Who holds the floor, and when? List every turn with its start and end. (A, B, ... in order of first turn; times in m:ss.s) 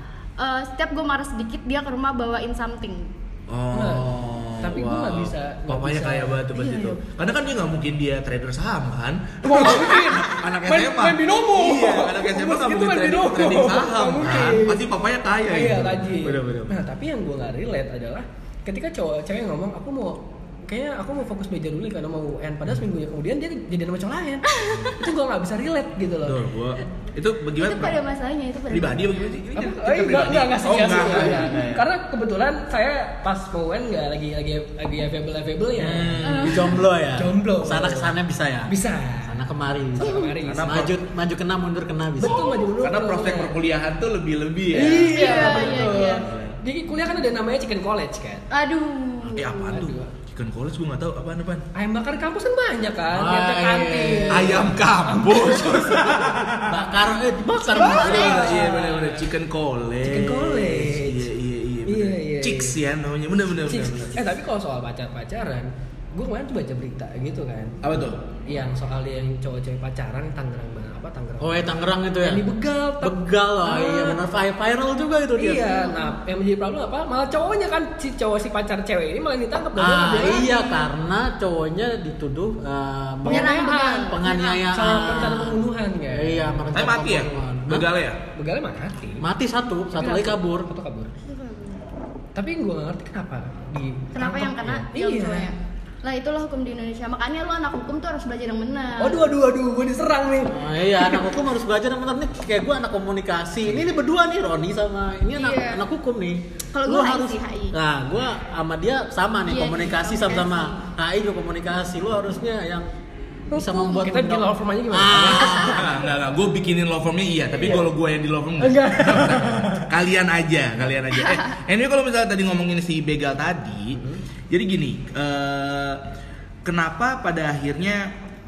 0:00.4-0:03.1 A
0:03.5-0:16.8 B
0:03.7-0:06.9 C
0:09.4-0:14.8 C
0:15.5-0:26.4 C
0:24.5-0:25.0 A
0:26.2-0:28.0 B
0:27.6-0:29.2 A
0:28.7-0:31.9 B
0:29.5-0:36.2 C
0:35.8-0:42.5 D
0:36.2-0:36.8 A
0:37.2-0:38.1 C
0:38.7-0:39.4 C
0:40.0-0:40.8 C
0:40.5-0:41.0 B
0:42.2-0:43.6 C
0:42.8-0:46.6 B
0:44.7-0:48.5 C
0:45.1-0:46.3 A
0:48.5-0:49.8 A
0:49.2-0:51.6 B
0:49.7-0:50.1 C
0:51.8-0:54.8 C
0:53.1-0:54.8 D
0:54.3-0:56.8 B
0:55.8-0:58.6 D
0:57.8-1:04.3 B
0:57.8-0:59.2 C
0:57.9-0:58.6 A
1:00.0-1:01.3 C
1:01.9-1:02.8 C
1:03.7-1:07.8 C
1:07.8-1:08.2 B
1:08.5-1:14.2 C
1:11.4-1:15.9 D
1:15.4-1:20.8 C
1:19.8-1:27.9 D
1:23.2-1:26.7 C
1:23.3-1:24.6 A
1:26.7-1:28.2 B
1:28.3-1:29.2 C
1:29.2-1:30.7 D
1:29.9-1:31.1 C
1:31.2-1:31.8 A
1:32.4-1:35.5 C
1:34.1-1:39.3 A
1:39.0-1:41.3 C
1:40.5-1:52.9 D
1:45.4-1:45.8 A
1:46.7-1:47.8 A
1:49.5-1:50.8 A
1:53.5-1:56.0 D
1:53.5-1:56.0 C
1:55.2-2:04.0 B
1:57.5-1:57.9 C
1:58.6-1:59.9 C
2:04.0-2:04.2 C
2:04.5-2:06.0 B
2:06.6-2:08.1 B